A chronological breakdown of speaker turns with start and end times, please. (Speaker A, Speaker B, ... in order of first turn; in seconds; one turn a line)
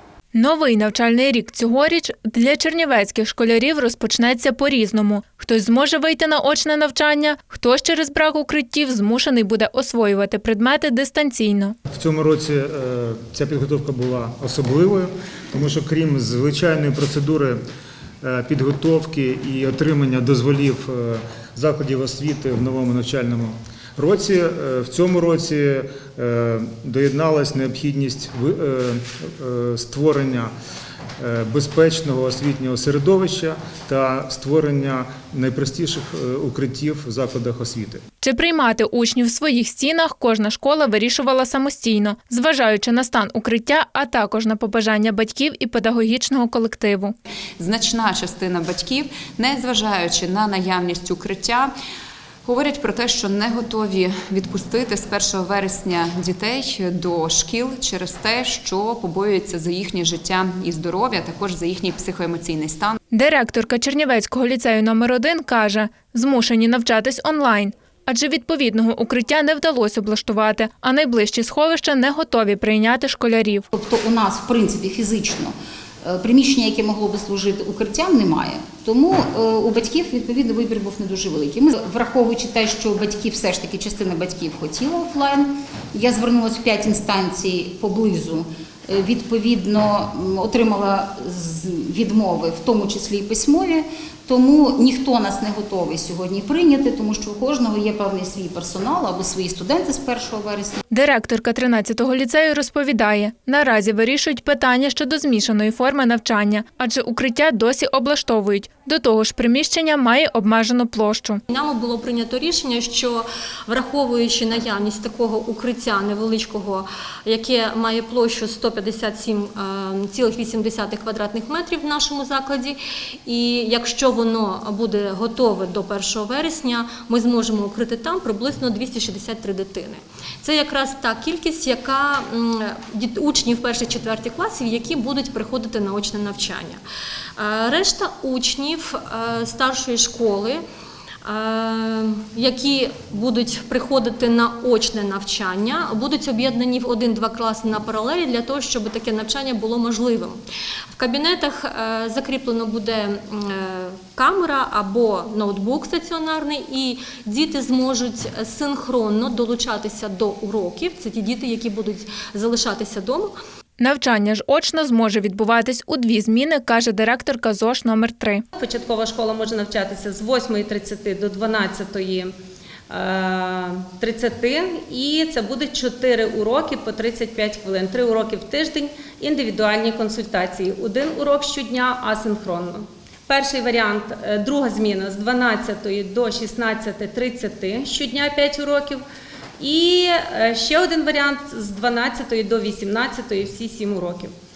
Speaker A: 0.3-11.8
Speaker B: 11.9-17.6
Speaker B: 18.2-30.5
Speaker B: 31.2-38.0
Speaker A: 38.2-47.1
Speaker C: 47.6-51.7
Speaker C: 52.5-63.0
Speaker A: 63.1-73.7
Speaker D: 73.7-75.5
Speaker D: 76.0-100.8
Speaker A: 100.9-111.4
Speaker E: 111.5-136.8
Speaker E: 137.4-140.6
Speaker E: 141.2-150.4
Speaker E: 150.9-163.3
Speaker A: 163.8-168.4
Speaker F: 168.6-172.3
Speaker F: 172.9-189.0
Speaker F: 189.6-194.3